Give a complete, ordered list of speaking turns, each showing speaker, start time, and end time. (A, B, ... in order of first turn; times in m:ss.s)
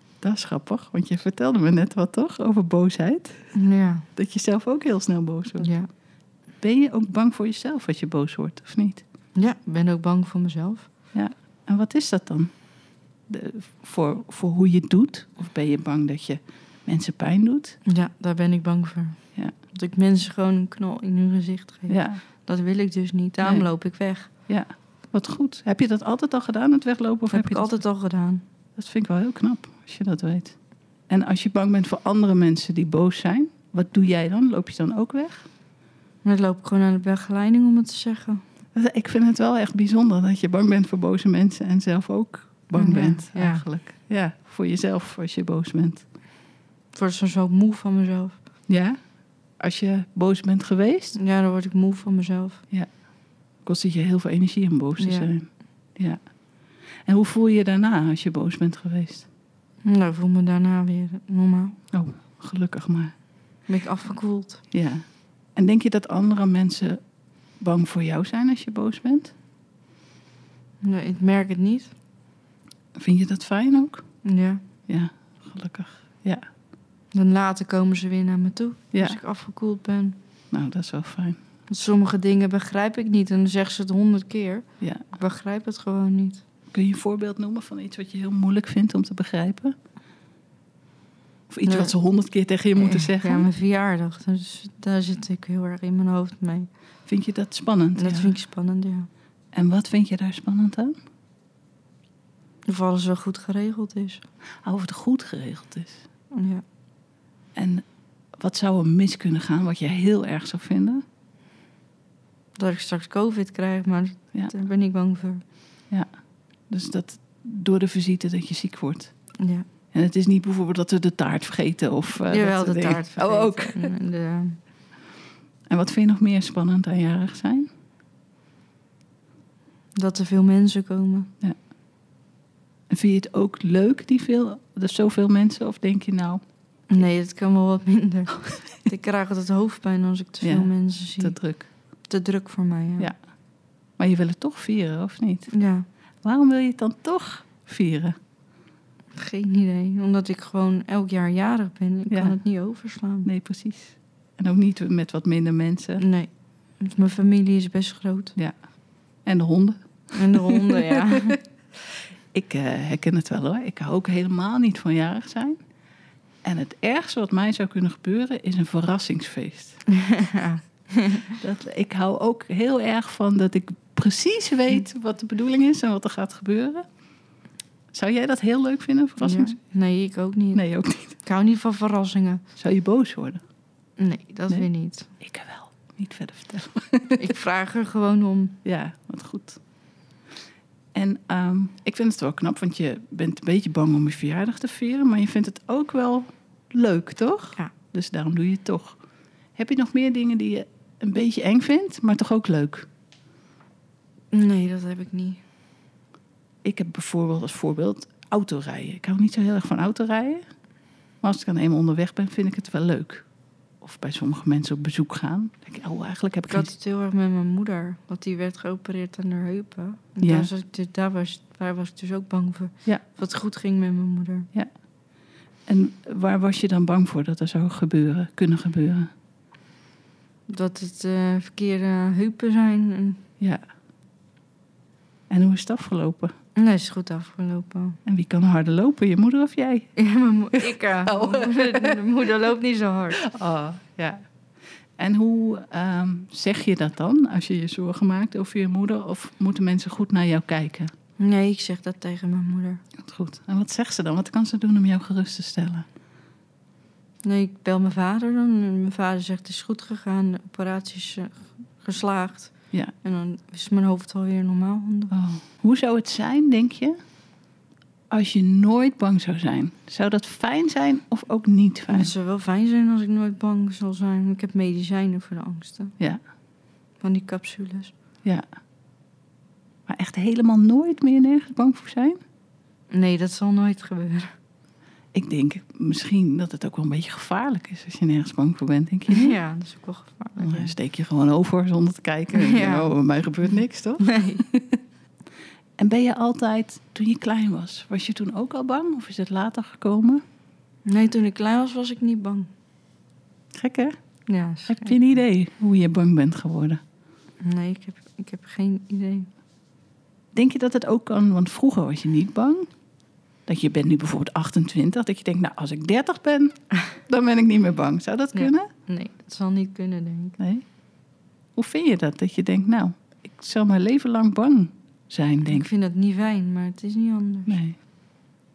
0:00.2-0:03.4 A
0:03.5-0:04.1 B
0:04.2-0:05.7 A
0:05.6-0:05.9 B
0:06.6-0:09.0 A
0:09.4-0:10.9 B
0:11.1-0:12.5 A
0:13.3-0:17.8 A
0:17.8-0:19.2 B
0:19.7-0:24.3 B
0:21.9-0:22.2 A
0:23.4-0:23.7 A
0:24.5-0:27.8 A
0:27.3-0:28.4 B
0:28.8-0:30.6 A
0:31.1-0:35.5 A
0:36.2-0:38.4 B
0:38.8-0:46.0 A
0:42.7-0:43.6 B
0:46.9-0:48.4 B
0:48.7-0:49.0 A
0:49.6-0:51.2 A
0:51.2-0:52.6 B
0:53.6-0:56.2 A
0:55.0-0:55.3 B
0:57.1-0:59.3 A
0:59.8-1:01.8 B
1:01.9-1:03.1 A
1:03.7-1:04.6 B
1:04.7-1:05.0 A
1:05.6-1:07.0 A
1:07.6-1:09.3 A
1:10.8-1:11.9 B
1:13.0-1:14.0 A
1:14.2-1:14.6 B
1:14.9-1:16.4 A
1:17.1-1:20.2 B
1:18.9-1:19.2 A
1:20.5-1:21.4 A
1:21.7-1:26.4 B
1:24.8-1:25.1 A
1:26.7-1:29.8 A
1:31.5-1:33.5 A
1:31.7-1:31.9 B
1:32.8-1:36.7 B
1:37.1-1:38.4 A
1:38.0-1:39.1 B
1:39.5-1:41.0 A
1:42.7-1:44.2 B
1:44.6-1:46.0 A
1:46.3-1:46.6 B
1:47.6-1:47.8 A
1:48.4-1:51.0 A
1:52.6-1:55.4 B
1:56.7-1:59.1 A
1:59.4-1:59.7 B
1:59.9-2:03.9 A
2:02.3-2:04.6 B
2:05.7-2:07.7 A
2:10.0-2:11.3 B
2:12.9-2:16.4 A
2:16.9-2:21.4 B
2:20.4-2:21.7 A
2:22.1-2:23.1 B
2:24.0-2:25.5 A
2:25.5-2:25.8 B
2:26.2-2:28.2 A
2:29.2-2:33.3 B
2:32.1-2:32.4 A
2:33.2-2:36.0 A
2:36.0-2:36.3 B
2:36.8-2:38.4 B
2:39.2-2:41.4 A
2:40.1-2:41.4 B
2:42.3-2:45.6 A
2:46.4-2:49.8 A
2:49.9-2:51.3 B
2:51.3-2:56.8 A
2:57.9-2:59.6 A
2:59.2-3:00.6 B
3:00.5-3:01.2 A
3:01.2-3:02.4 B
3:02.6-3:03.4 A
3:04.0-3:05.1 B
3:05.2-3:07.3 A
3:07.2-3:08.6 B
3:08.6-3:09.6 A
3:11.0-3:19.0 A
3:19.6-3:22.9 A
3:24.3-3:25.4 B
3:26.6-3:30.4 A
3:31.2-3:33.3 A
3:33.8-3:36.7 A
3:36.5-3:44.5 B
3:40.2-3:40.5 A
3:45.7-3:49.1 A
3:50.5-3:53.2 B
3:55.3-3:56.3 A
3:56.6-3:58.0 B
3:58.0-3:59.9 A
4:00.0-4:03.2 B
4:00.6-4:02.3 A
4:03.2-4:04.2 A
4:05.0-4:10.9 A
4:11.2-4:12.8 B
4:13.0-4:15.9 A
4:17.2-4:25.1 B
4:25.1-4:27.0 A
4:28.1-4:32.1 A
4:31.9-4:35.9 B
4:37.0-4:37.9 B
4:39.9-4:42.2 A
4:42.9-4:44.3 B
4:45.1-4:49.4 A
4:49.1-4:50.7 B
4:50.4-4:54.8 A
4:52.3-4:52.9 B
4:54.0-4:54.4 B
4:55.8-5:00.2 A
5:00.8-5:02.5 B
5:03.6-5:03.9 A
5:04.3-5:05.0 B
5:04.7-5:06.8 A
5:07.4-5:09.3 B
5:10.3-5:12.7 A
5:13.5-5:18.7 A
5:18.3-5:20.4 B
5:21.6-5:25.7 A
5:25.4-5:27.6 B
5:27.5-5:27.8 A